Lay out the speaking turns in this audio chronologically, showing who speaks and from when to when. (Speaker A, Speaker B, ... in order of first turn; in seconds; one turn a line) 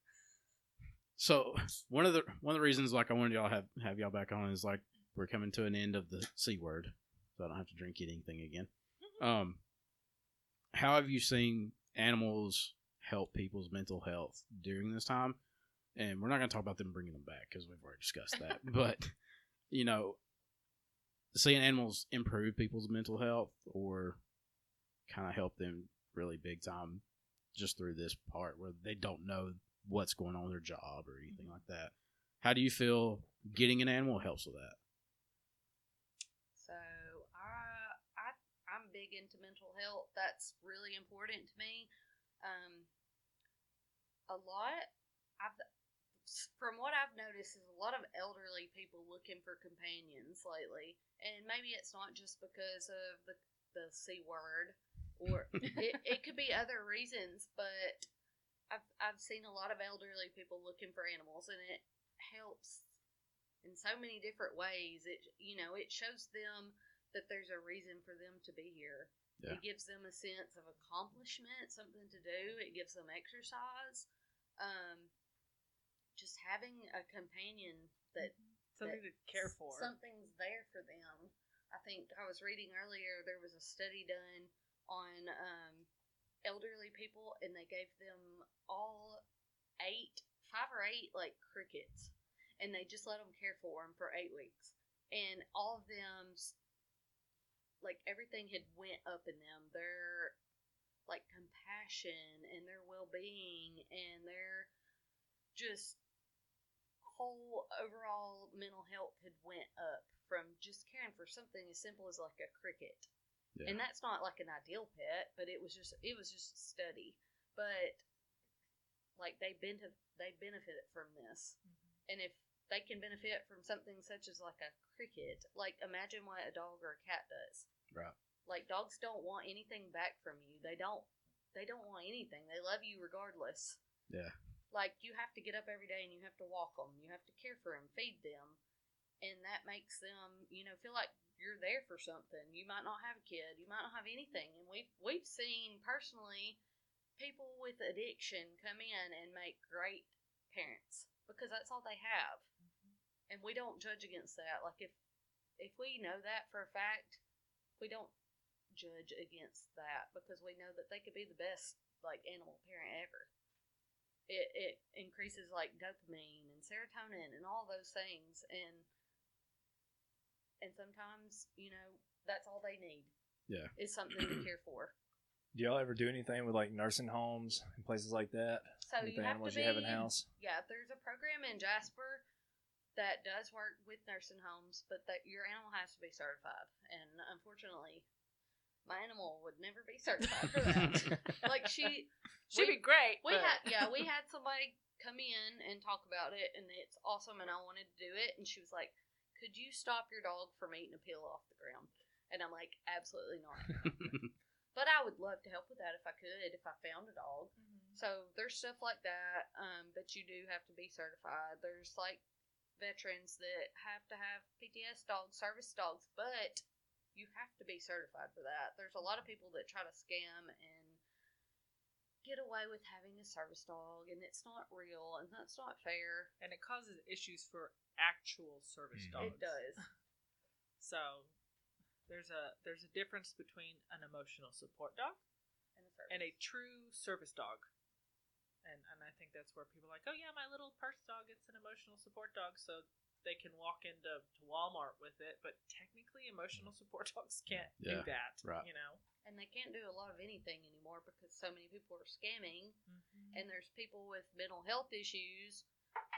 Speaker A: 1.2-9.6
Speaker A: 10.7-15.4
Speaker A: 15.9-19.1
Speaker A: 19.7-20.2
Speaker A: 21.3-24.2
Speaker A: 25.1-27.0
Speaker A: 27.5-34.8
Speaker B: 36.5-41.9
Speaker B: 42.4-42.9
Speaker B: 44.3-45.6
Speaker B: 46.2-58.1
Speaker B: 58.7-62.9
Speaker B: 63.6-74.1
Speaker B: 74.6-75.1
Speaker B: 76.2-85.9
Speaker C: 78.2-79.9
Speaker B: 86.4-89.2
Speaker B: 89.8-96.5
Speaker B: 97.8-100.3
Speaker B: 101.1-104.7
Speaker B: 105.5-106.0
Speaker B: 107.0-113.1
Speaker A: 113.5-113.8
Speaker B: 113.6-118.0
Speaker B: 119.2-121.6
Speaker B: 122.1-127.7
Speaker B: 128.4-133.8
Speaker A: 134.1-134.3
Speaker B: 134.7-138.6
Speaker B: 139.2-146.6
Speaker B: 147.2-152.5
Speaker B: 153.3-154.9
Speaker B: 155.6-157.2
Speaker B: 157.8-158.1
Speaker B: 158.7-163.3
Speaker B: 164.3-168.8
Speaker B: 170.6-173.1
Speaker A: 173.5-174.4
Speaker B: 173.8-174.9
Speaker D: 175.5-180.2
Speaker B: 178.8-182.2
Speaker B: 182.9-188.1
Speaker B: 188.8-204.0
Speaker C: 190.8-191.1
Speaker C: 192.5-194.1
Speaker A: 203.8-204.3
Speaker B: 204.7-212.2
Speaker C: 207.6-208.0
Speaker B: 212.8-221.0
Speaker B: 222.2-226.3
Speaker C: 226.4-229.8
Speaker D: 228.9-229.3
Speaker B: 229.2-229.8
Speaker C: 230.8-231.3
Speaker C: 232.1-235.2
Speaker B: 235.8-236.3
Speaker C: 236.1-237.7
Speaker C: 238.6-249.0
Speaker A: 247.8-248.6
Speaker B: 249.2-252.8
Speaker C: 252.9-253.4
Speaker B: 253.3-255.6